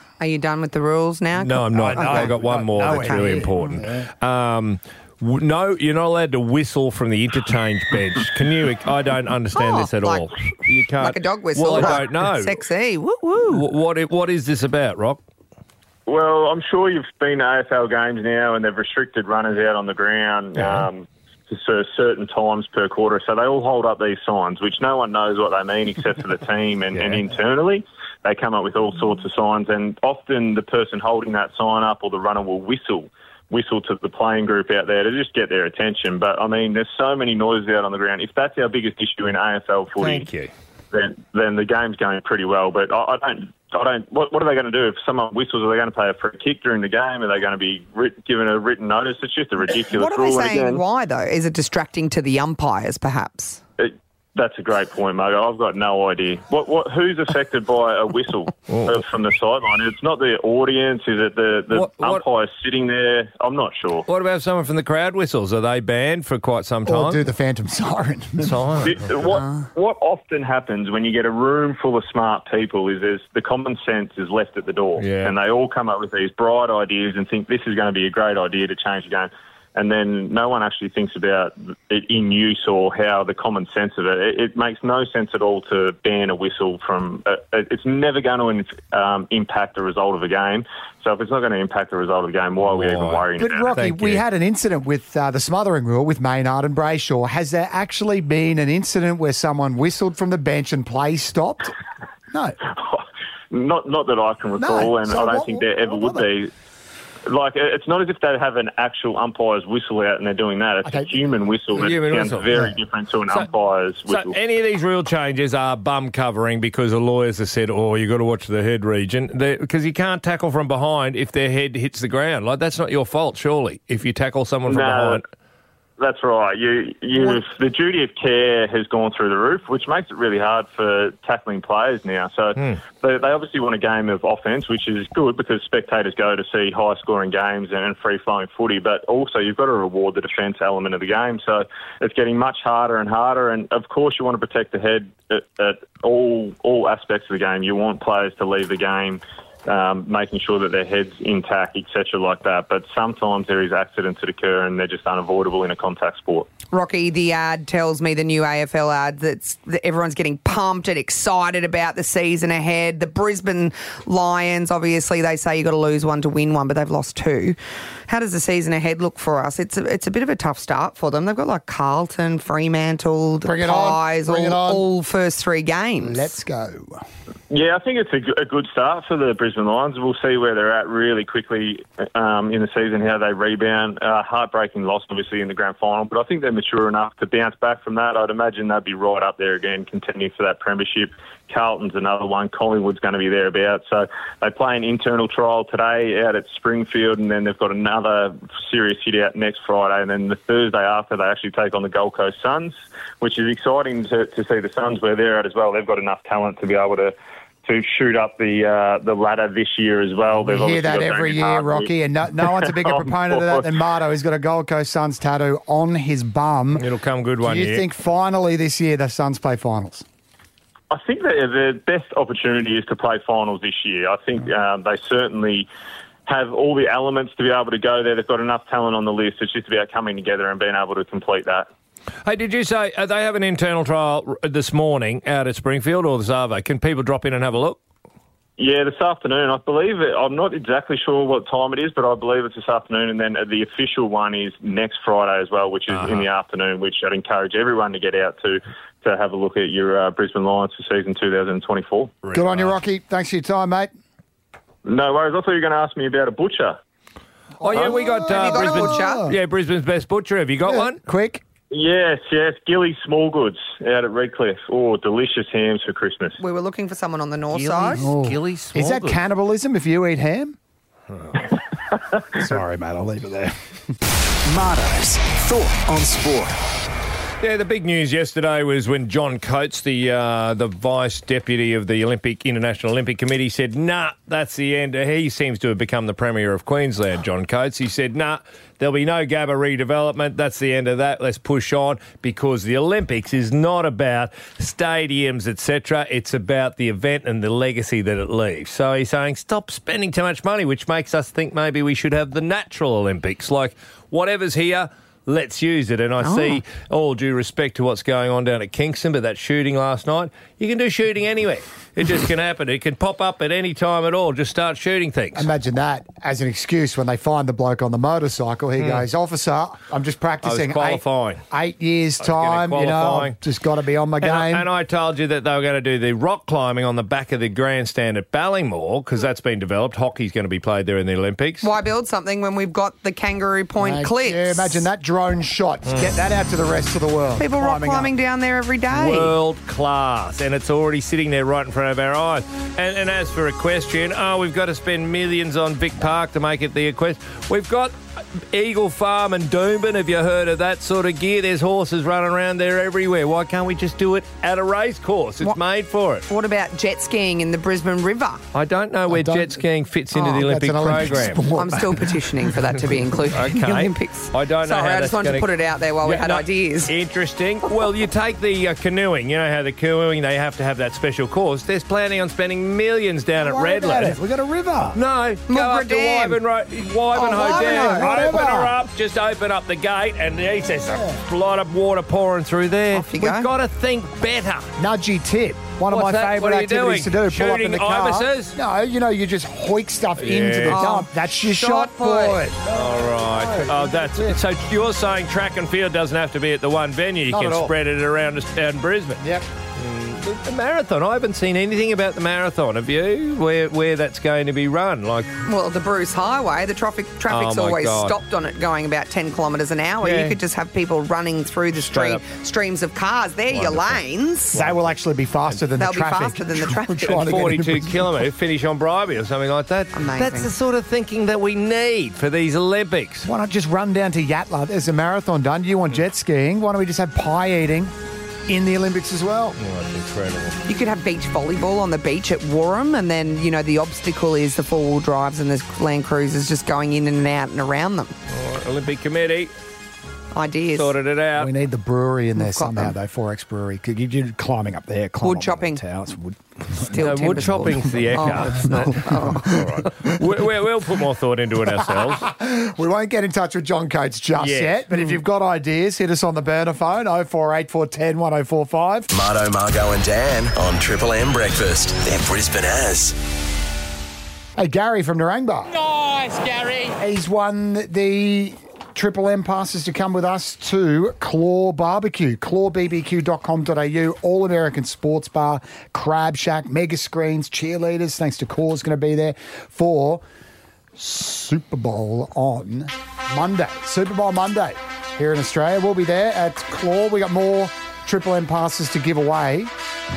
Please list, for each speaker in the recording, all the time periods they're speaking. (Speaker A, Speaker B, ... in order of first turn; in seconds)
Speaker A: 0.2-3.4, 9.6-10.3, 11.0-13.6, 49.8-53.6, 156.7-167.6, 168.1-176.3, 257.8-259.3, 266.4-268.1, 306.2-306.6, 331.6-334.9, 337.4-339.3, 356.3-358.4, 361.6-366.9, 375.5-376.4, 377.1-378.1, 382.9-383.5, 390.7-392.4, 405.4-414.6, 415.8-417.4, 419.9-420.5, 430.7-438.1, 440.3-440.9, 442.4-442.9, 445.2-445.8, 446.9-449.6
Speaker B: 1.4-12.6, 13.5-15.2, 20.6-20.9, 26.9-27.2, 40.0-40.5, 58.7-59.0, 61.7-62.2, 64.1-67.2, 68.4-69.0, 75.0-75.3, 92.6-94.2, 111.8-112.5, 114.1-125.2, 216.8-217.8, 232.2-237.8, 245.9-246.3, 252.2-252.8, 257.6-261.0, 267.5-269.2, 277.4-315.5, 318.8-319.1, 320.4-321.4, 322.2-323.4, 324.2-331.7, 338.9-347.9, 348.5-356.2, 358.5-361.5, 363.3-365.5, 366.0-374.2, 374.9-384.7, 385.9-388.6, 390.2-390.9, 392.7-399.2, 399.8-405.3, 407.3-408.1, 410.0-410.4, 411.8-412.2, 413.5-414.0, 414.5-414.9, 417.1-423.3, 429.6-430.6, 438.3-439.5, 440.8-441.5, 447.0-452.3, 454.4-454.8, 465.9-466.9
Speaker C: 1.7-4.1, 66.9-68.7, 93.4-101.7, 102.3-102.6, 104.6-106.3, 110.8-111.2, 173.4-174.9, 176.0-177.0, 210.4-216.9, 217.4-220.0, 252.3-253.9, 257.6-259.4, 260.7-261.4, 267.9-270.6, 272.4-273.5, 315.4-324.7, 333.8-338.1, 359.1-359.6, 360.2-362.5, 373.4-375.0, 377.3-378.7, 380.9-381.2, 384.8-394.4, 397.3-397.7, 399.2-399.4, 414.6-418.2, 423.2-427.9, 428.5-429.6, 441.4-450.1, 451.8-459.1, 464.6-465.7, 467.0-480.2, 481.0-489.7
Speaker D: 16.1-40.3, 40.9-50.8, 53.8-64.1, 68.8-93.7, 102.7-106.5, 107.3-114.4, 124.7-125.2, 126.0-156.5, 177.5-207.1, 207.7-211.9, 212.5-213.7, 220.9-225.7, 226.3-231.7, 238.6-252.2, 254.8-256.8, 261.7-266.4
Speaker E: 274.5-276.5
Speaker F: 459.1-463.1